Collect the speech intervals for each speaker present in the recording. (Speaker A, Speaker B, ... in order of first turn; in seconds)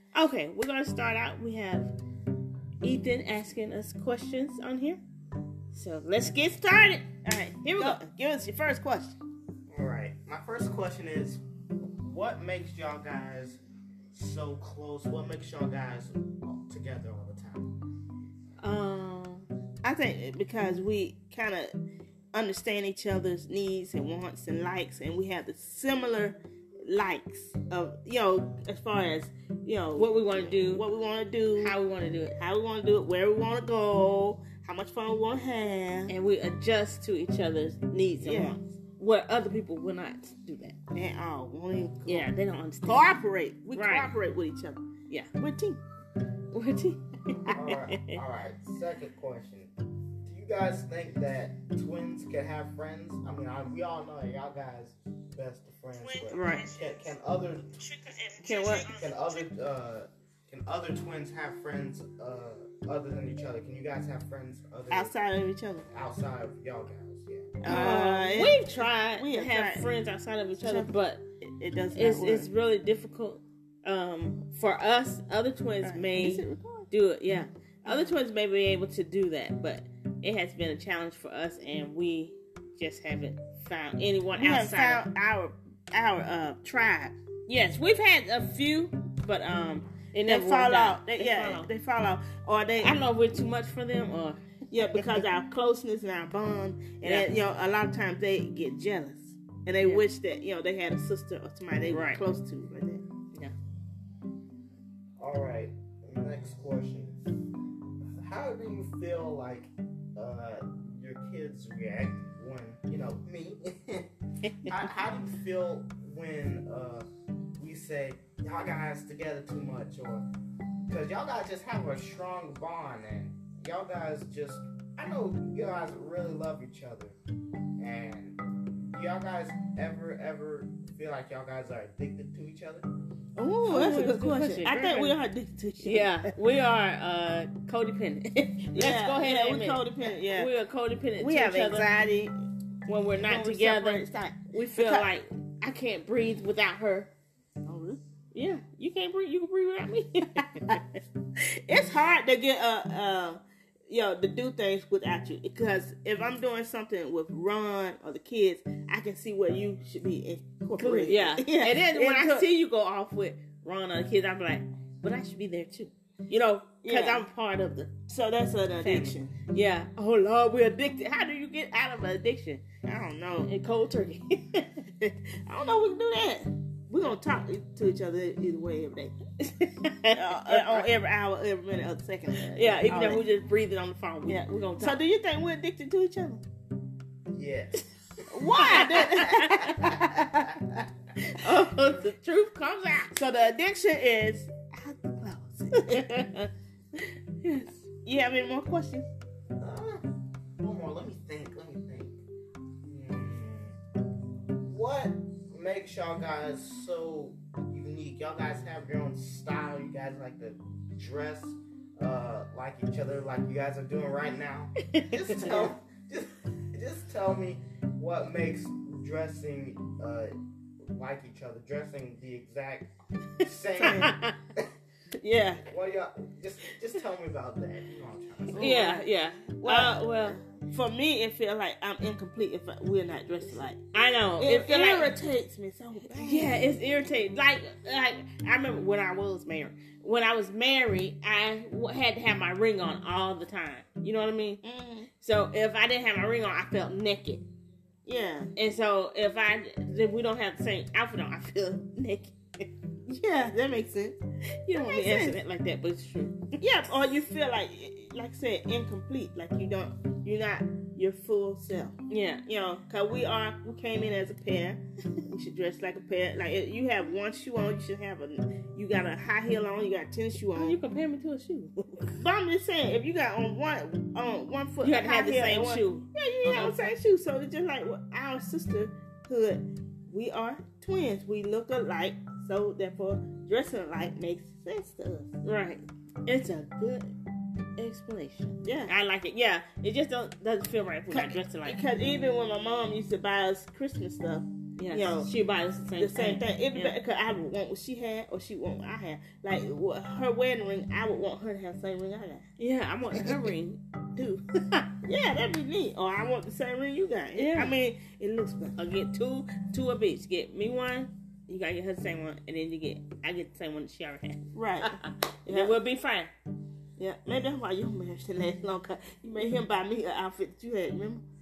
Speaker A: 0.1-1.9, 2.8-5.0, 5.7-7.1, 7.6-8.0, 18.6-19.5, 30.0-30.9, 31.6-32.4, 36.1-40.8, 42.1-43.1, 43.7-44.1, 46.5-48.2, 56.1-56.7, 57.9-59.0, 67.7-71.2, 71.9-85.0, 87.5-91.7, 92.8-94.4, 94.9-95.2, 97.0-97.4, 99.8-100.1, 101.9-102.2, 114.5-114.8, 133.7-135.2, 135.8-141.9, 142.8-147.1, 148.3-151.0, 160.8-167.9, 168.8-172.6, 173.4-174.8, 179.4-180.9, 182.5-185.0, 188.4-190.3, 191.3-193.2, 195.8-196.3, 197.4-197.8, 214.9-215.6, 223.8-224.4, 228.6-230.4, 233.9-235.2, 236.1-244.6, 245.2-247.4, 248.6-252.7, 254.6-256.4, 262.1-262.4, 270.6-272.2, 274.8-276.8, 285.4-287.1, 287.8-291.8, 294.8-297.0, 302.6-304.9, 307.4-307.8, 308.8-316.3
Speaker B: 7.2-9.2, 19.8-21.8, 22.3-31.8, 32.4-36.1, 38.2-38.5, 40.9-42.3, 42.9-44.8, 45.4-45.8, 56.3-56.7, 58.4-58.9, 64.9-65.9, 67.6-69.9, 70.6-72.5, 75.8-76.9, 77.9-78.1, 84.4-87.2, 90.3-93.0, 94.7-103.0, 133.4-136.3, 138.7-140.5, 141.2-142.4, 143.2-145.1, 147.7-148.0, 151.4-162.5, 166.8-167.3, 168.1-169.4, 172.8-173.5, 175.0-179.1, 180.1-183.3, 184.3-186.4, 188.3-190.4, 193.1-196.4, 198.0-199.1, 215.4-215.7, 223.8-224.1, 225.2-225.7, 228.5-233.8, 234.4-236.7, 244.6-245.1, 248.1-248.5, 253.1-254.2, 254.7-255.4, 256.6-270.8, 272.0-285.3, 288.6-288.9, 291.1-295.3, 296.0-302.4, 305.0-308.8, 314.5-315.8, 317.0-321.2
Speaker C: 9.7-11.4, 12.0-13.6, 14.1-17.7, 47.5-49.7, 50.2-57.8, 58.8-65.2, 65.9-67.6, 105.2-107.3, 108.2-114.1, 114.6-117.1, 117.6-120.3, 120.9-127.2, 127.8-132.9, 187.3-187.8, 188.9-189.2, 189.8-190.5, 199.6-200.0, 200.6-202.2, 202.8-203.8, 204.6-224.2, 225.7-228.8